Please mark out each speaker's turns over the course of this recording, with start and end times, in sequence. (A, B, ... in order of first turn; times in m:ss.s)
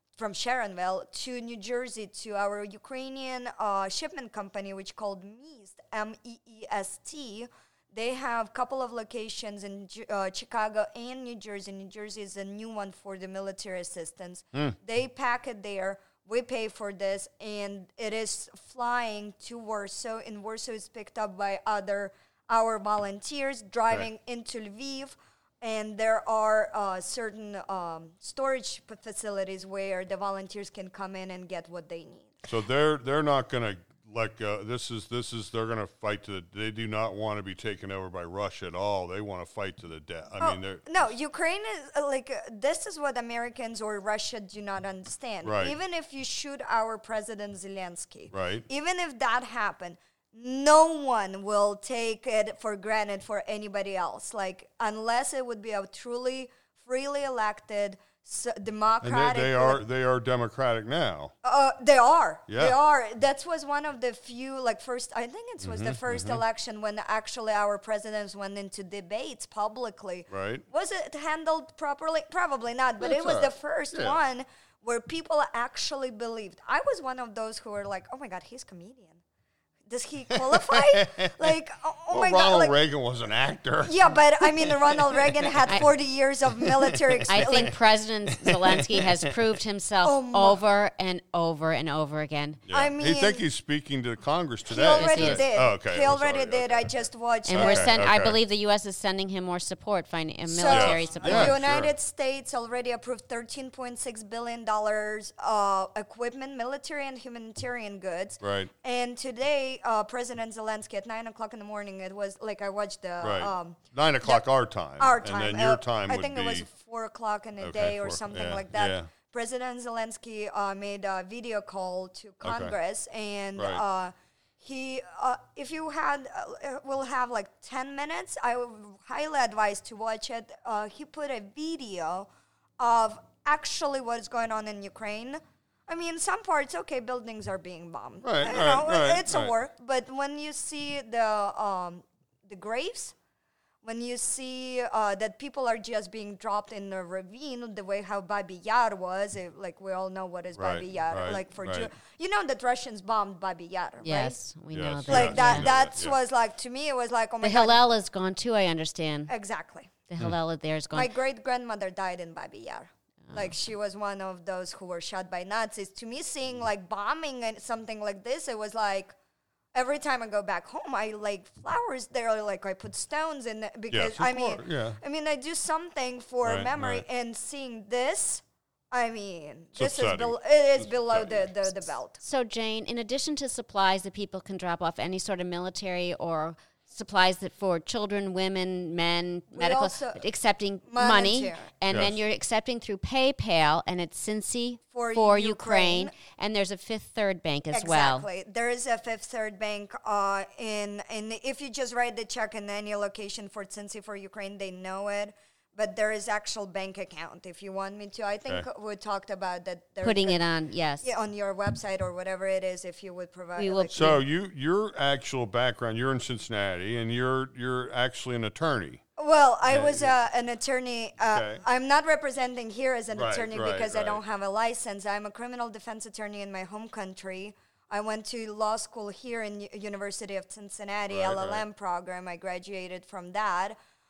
0:00.2-0:32.3 A
0:32.4-0:41.1 B
0:40.4-0:59.8 A
0:45.4-0:45.8 B
0:48.3-0:48.6 B
0:59.0-1:01.3 B
1:01.4-1:19.2 A
1:02.5-1:02.8 B
1:05.6-1:06.4 B
1:10.3-1:10.6 B
1:13.0-1:14.2 B
1:19.9-1:22.8 A
1:20.3-1:21.6 B
1:22.1-1:25.8 B
1:23.8-1:27.7 A
1:26.6-1:27.7 B
1:27.3-1:32.6 C
1:28.4-1:29.3 B
1:30.0-1:30.6 A
1:32.7-1:38.4 B
1:32.7-1:33.4 A
1:34.7-1:37.9 A
1:35.0-1:35.5 C
1:37.4-1:41.6 C
1:40.5-1:54.4 A
1:40.6-1:41.9 B
1:48.4-1:48.7 B
1:53.2-1:56.7 B
1:55.0-2:12.3 A
1:57.6-1:59.1 B
2:02.4-2:02.7 B
2:03.6-2:03.8 B
2:12.8-2:23.1 A
2:18.2-2:19.5 B
2:23.8-2:34.4 A
2:30.5-2:31.9 B
2:34.0-2:35.7 C
2:34.7-2:36.2 B
2:35.1-2:37.8 A
2:37.4-2:39.3 C
2:39.3-2:39.9 A
2:40.1-2:41.1 C
2:40.9-2:49.1 A
2:49.7-3:02.2 A
2:53.9-2:55.0 B
2:56.4-2:57.0 B
2:59.7-3:01.7 B
3:02.2-3:18.3 C
3:09.5-3:10.2 A
3:10.8-3:11.7 A
3:11.9-3:12.2 B
3:14.9-3:16.2 A
3:17.7-3:30.4 A
3:30.0-3:31.1 C
3:31.0-3:34.0 A
3:33.6-3:34.2 C
3:33.9-3:39.0 B
3:39.2-3:53.8 A
3:39.6-3:40.1 B
3:41.3-3:41.6 B
3:43.1-3:44.2 B
3:51.1-3:51.6 B